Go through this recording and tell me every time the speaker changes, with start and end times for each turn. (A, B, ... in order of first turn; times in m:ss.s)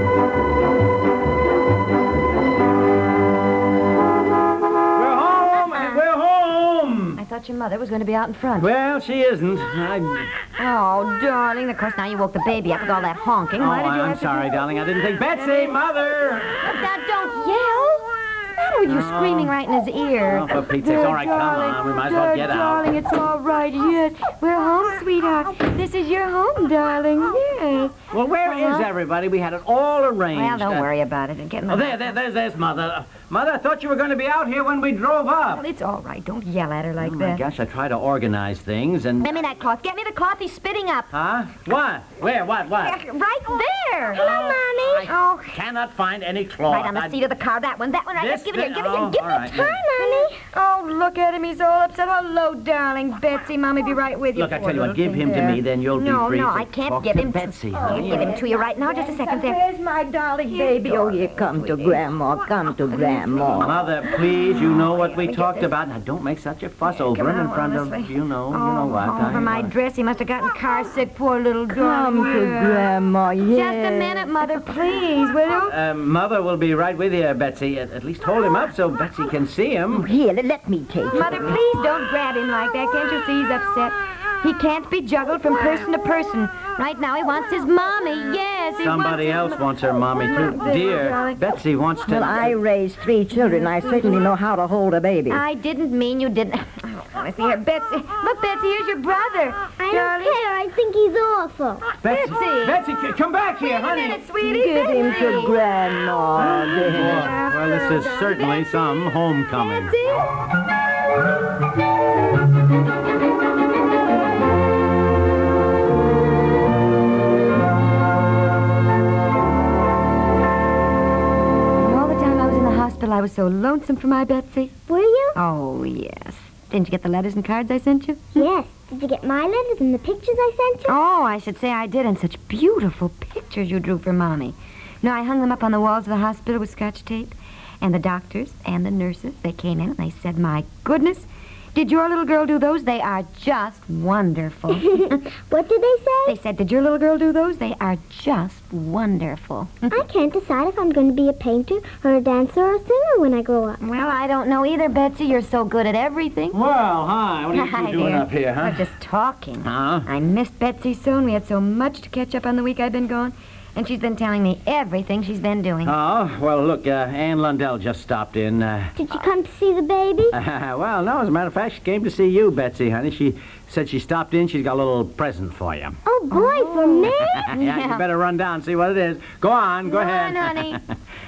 0:04.9-0:07.2 A
0:05.7-0:06.0 B
0:07.2-0:08.7 B
0:08.6-0:10.4 A
0:10.6-0:15.8 B
0:13.6-0:16.6 A
0:16.6-0:28.9 B
0:18.8-0:19.5 A
0:20.2-0:22.9 A
0:28.1-0:30.9 A
0:30.3-0:32.1 B
0:31.7-0:35.6 A
0:35.5-0:37.4 B
0:37.0-0:39.3 A
0:39.2-0:41.1 B
0:41.1-0:43.0 A
0:42.7-0:45.6 B
0:44.1-0:47.3 A
0:44.3-0:44.7 C
0:46.6-0:59.6 B
0:48.2-0:49.7 A
0:49.5-0:50.5 C
0:54.3-0:58.3 A
0:57.8-1:03.8 D
1:00.6-1:02.0 B
1:03.0-1:03.7 B
1:03.6-1:09.7 A
1:04.4-1:05.7 B
1:06.8-1:12.8 B
1:11.7-1:14.6 D
1:13.5-1:15.7 B
1:15.7-1:20.1 A
1:19.9-1:21.6 D
1:21.1-1:31.4 B
1:28.8-1:32.6 A
1:32.0-1:35.4 D
1:33.4-1:34.2 B
1:35.3-1:40.4 B
1:39.8-1:41.9 C
1:42.0-1:44.2 A
1:42.0-1:42.8 B
1:43.6-1:45.6 B
1:44.4-1:47.3 D
1:46.4-1:49.9 A
1:46.5-1:50.2 B
2:01.8-2:04.8 B
2:04.9-2:05.4 C
2:05.3-2:08.5 B
2:08.4-2:11.0 C
2:10.9-2:25.3 B
2:24.7-2:26.4 C
2:26.2-2:30.0 B
2:29.9-2:33.8 C
2:33.8-2:36.6 B
2:36.5-2:38.9 A
2:37.5-2:45.9 B
2:39.6-2:40.1 A
2:45.8-2:49.0 A
2:49.0-2:50.4 C
2:50.3-2:56.0 A
2:56.0-2:57.4 C
2:56.3-2:58.1 B
2:57.0-3:00.9 A
2:59.8-3:00.8 B